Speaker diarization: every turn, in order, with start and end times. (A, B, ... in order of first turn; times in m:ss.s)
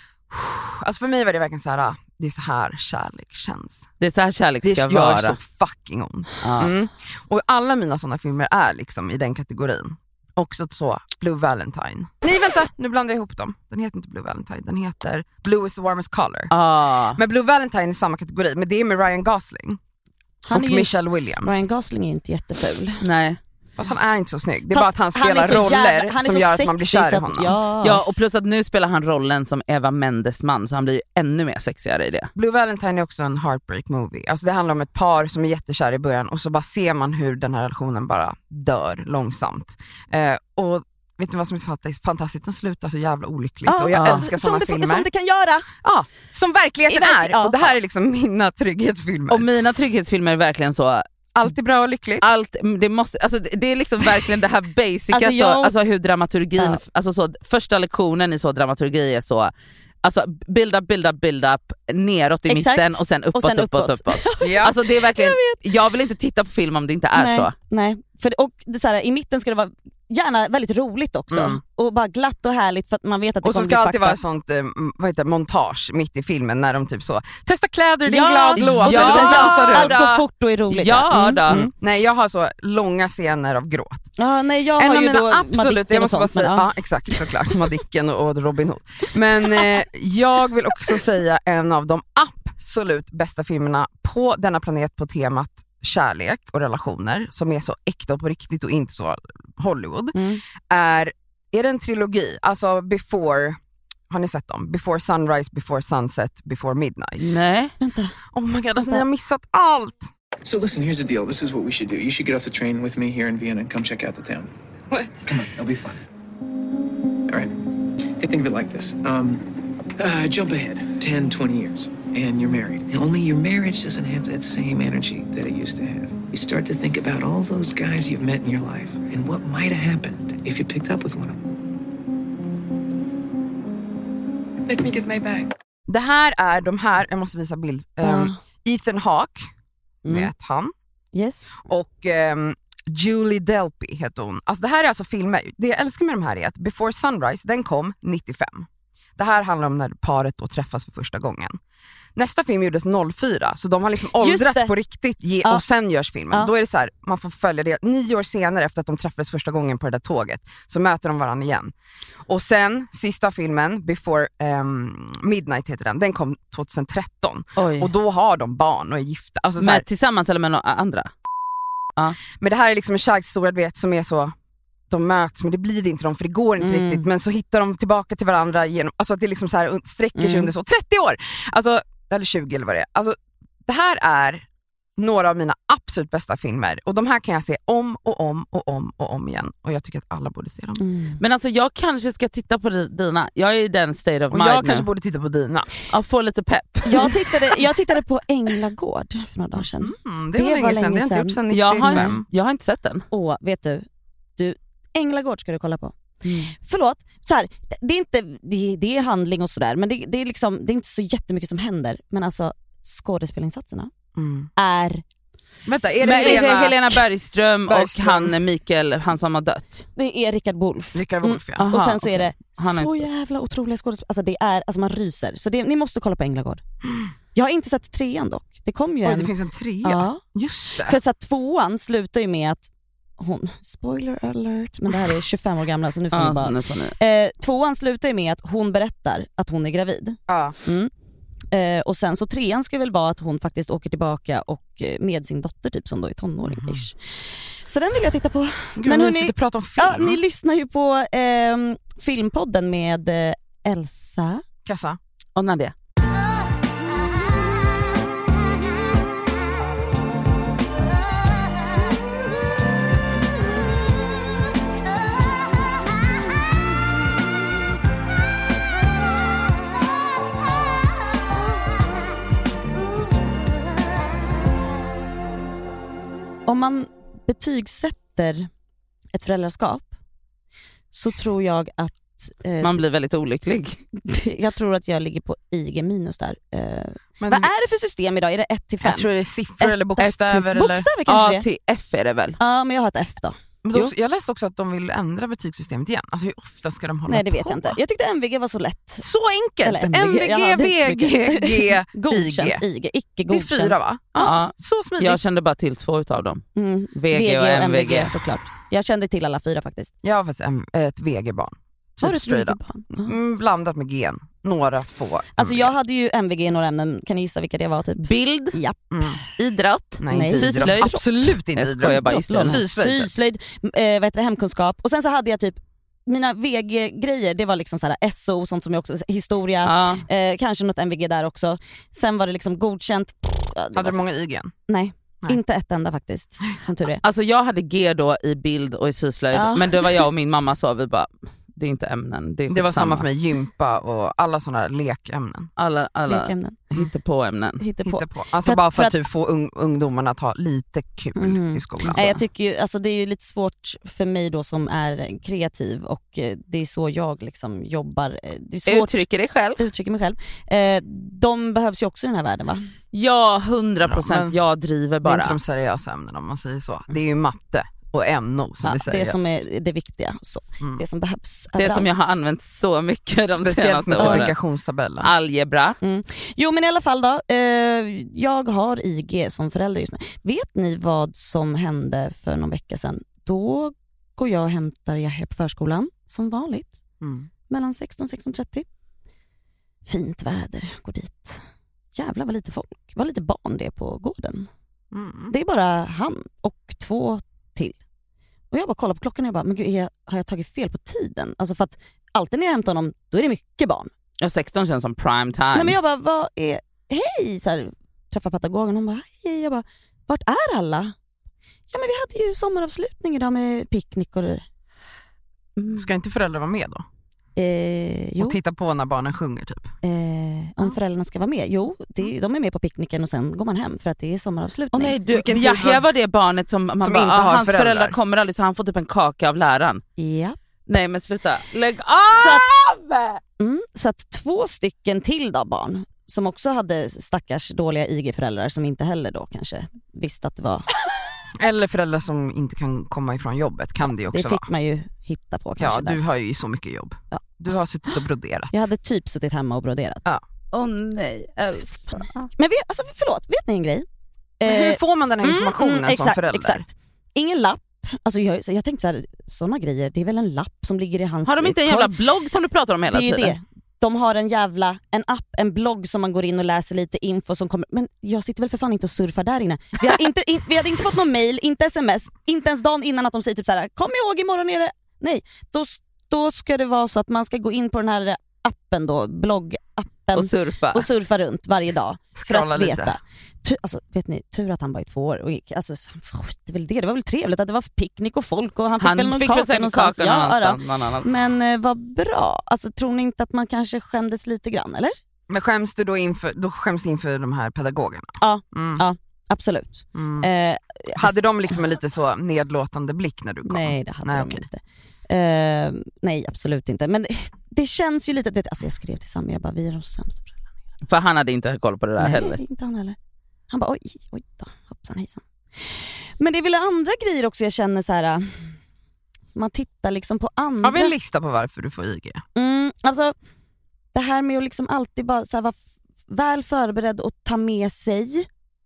0:00.3-0:03.9 A
0:04.0-0:05.4 B
0:04.6-0:16.5 A
0:06.4-0:06.7 B
0:16.5-0:17.2 B
0:17.1-0:19.8 A
0:20.5-0:20.9 C
0:20.5-0:21.6 A
0:21.4-0:23.0 C
0:23.0-0:23.4 B
0:23.8-0:27.6 A
0:24.7-0:28.0 C
0:27.8-0:32.3 B
0:32.4-0:45.1 A
0:43.7-0:45.7 C
0:45.8-0:49.5 A
0:46.9-0:47.7 C
0:49.3-0:51.0 B
0:51.4-0:52.3 A
0:52.2-0:59.5 B
0:55.1-0:55.7 C
1:00.0-1:07.5 B
1:02.5-1:05.6 C
1:04.4-1:04.8 A
1:07.2-1:14.2 C
1:11.3-1:11.6 A
1:13.4-1:20.0 A
1:18.1-1:21.7 C
1:18.6-1:21.6 B
1:21.5-1:24.1 A
1:24.2-1:26.7 C
1:24.8-1:43.6 A
1:40.1-1:40.4 C
1:44.1-1:47.3 A
1:47.2-1:47.7 B
1:47.8-1:48.2 C
1:48.3-1:50.1 A
1:48.8-1:49.0 C
1:50.4-1:54.5 D
1:55.3-1:56.0 D
1:58.2-1:59.5 D
2:00.0-2:11.5 D
2:14.7-2:15.5 D
2:15.9-2:19.4 A
2:18.0-2:18.4 C
2:20.1-2:20.7 A
2:21.1-2:21.5 C
2:21.6-2:31.6 A
2:32.2-2:41.7 A
2:34.2-2:34.7 C
2:42.3-2:49.9 A
2:47.6-2:47.9 B
2:49.6-2:51.1 B
2:52.4-2:54.3 A
2:54.9-3:04.4 A
2:56.6-2:57.1 C
3:00.2-3:00.5 C
3:05.0-3:10.8 A
3:10.8-3:11.2 C
3:11.2-3:14.9 B
3:14.3-3:15.7 A
3:15.9-3:17.6 B
3:16.8-3:22.2 C
3:19.6-3:22.3 A
3:21.5-3:23.1 B
3:23.1-3:23.9 C
3:24.4-3:26.0 C
3:26.2-3:26.5 B
3:26.5-3:33.9 C
3:34.2-3:34.5 A
3:34.6-3:35.0 C
3:35.7-3:37.0 A
3:36.0-3:39.9 B
3:37.7-3:38.4 A
3:40.0-3:46.6 C
3:40.9-3:41.7 A
3:41.6-3:43.1 B
3:47.3-3:49.3 C
3:49.0-3:51.0 A
3:49.8-3:50.2 C
3:50.8-4:00.9 C
3:56.1-3:56.9 B
4:00.3-4:00.6 A
4:01.5-4:14.4 C
4:06.4-4:06.8 A
4:08.8-4:10.2 A
4:14.6-4:15.0 A
4:15.4-4:15.7 B
4:36.5-4:38.5 C
4:39.1-4:39.9 C
4:40.9-4:42.8 C
4:42.6-4:43.8 B
4:44.0-4:49.1 C
4:47.2-4:47.5 A
4:48.8-4:50.9 A
4:49.6-4:51.4 C
4:50.0-4:52.4 B
4:52.4-4:53.9 C
4:53.6-4:57.8 A
4:57.1-4:59.0 C
4:59.0-5:02.6 A
4:59.6-5:03.8 C
5:03.3-5:05.2 A
5:04.2-5:06.4 B
5:06.6-5:09.9 C
5:07.0-5:08.2 B
5:10.0-5:15.7 A
5:12.0-5:13.2 C
5:15.4-5:18.8 C
5:18.0-5:18.6 B
5:18.9-5:19.2 A
5:19.4-5:21.0 B
5:20.0-5:23.1 A
5:20.1-5:21.0 C
5:21.5-5:22.6 B
5:21.8-5:34.0 C
5:29.6-5:30.0 B
5:33.8-5:34.5 A
5:34.7-5:37.0 C
5:37.0-5:43.1 B
5:39.3-5:40.0 C
5:42.5-5:45.5 A
5:45.6-5:47.6 B
5:46.1-5:46.6 C
5:47.6-5:49.0 C
5:47.8-5:52.2 A
5:51.2-5:59.1 C
5:58.7-5:59.6 B
5:59.6-6:02.7 C
6:02.9-6:05.4 B
6:03.8-6:04.4 A
6:05.0-6:09.4 A
6:08.6-6:12.0 C
6:11.6-6:14.3 B
6:13.4-6:15.1 A
6:14.0-6:14.3 C
6:15.0-6:15.8 B
6:15.8-6:26.8 C
6:27.0-6:27.3 A
6:27.5-6:28.6 C
6:29.8-6:31.4 C
6:32.0-6:34.5 C
6:34.9-6:35.3 A
6:35.3-6:37.8 C
6:38.5-6:43.9 C
6:44.2-6:45.8 B
6:45.6-6:50.9 C
6:51.7-6:54.4 C
6:55.6-6:55.8 B
6:55.8-6:56.8 A
6:57.4-6:58.4 C
6:58.2-6:59.7 A
6:59.8-7:05.0 C
7:04.7-7:09.8 B
7:05.1-7:05.8 A
7:06.8-7:08.0 A
7:10.0-7:10.4 C
7:10.7-7:13.2 B
7:12.1-7:12.4 C
7:13.4-7:20.7 C
7:21.4-7:24.5 A
7:24.1-7:26.0 C
7:25.6-7:28.6 A
7:28.5-7:30.1 C
7:30.5-7:32.3 B
7:32.4-7:33.9 C
7:34.4-7:41.9 C
7:34.4-7:36.7 A
7:41.3-7:43.4 B
7:42.9-8:14.9 C
8:00.1-8:00.9 B
8:02.2-8:03.0 A
8:08.8-8:11.1 B
8:15.3-8:18.8 A
8:18.2-8:21.2 C
8:20.0-8:20.3 A
8:21.0-8:24.5 A
8:23.5-8:30.4 C
8:30.9-8:32.4 B
8:32.0-8:33.0 C
8:33.5-8:35.2 C
8:35.7-8:38.6 C
8:39.3-8:40.9 C
8:40.6-8:42.2 A
8:42.4-8:43.1 C
8:43.9-8:45.6 C
8:46.1-8:48.3 C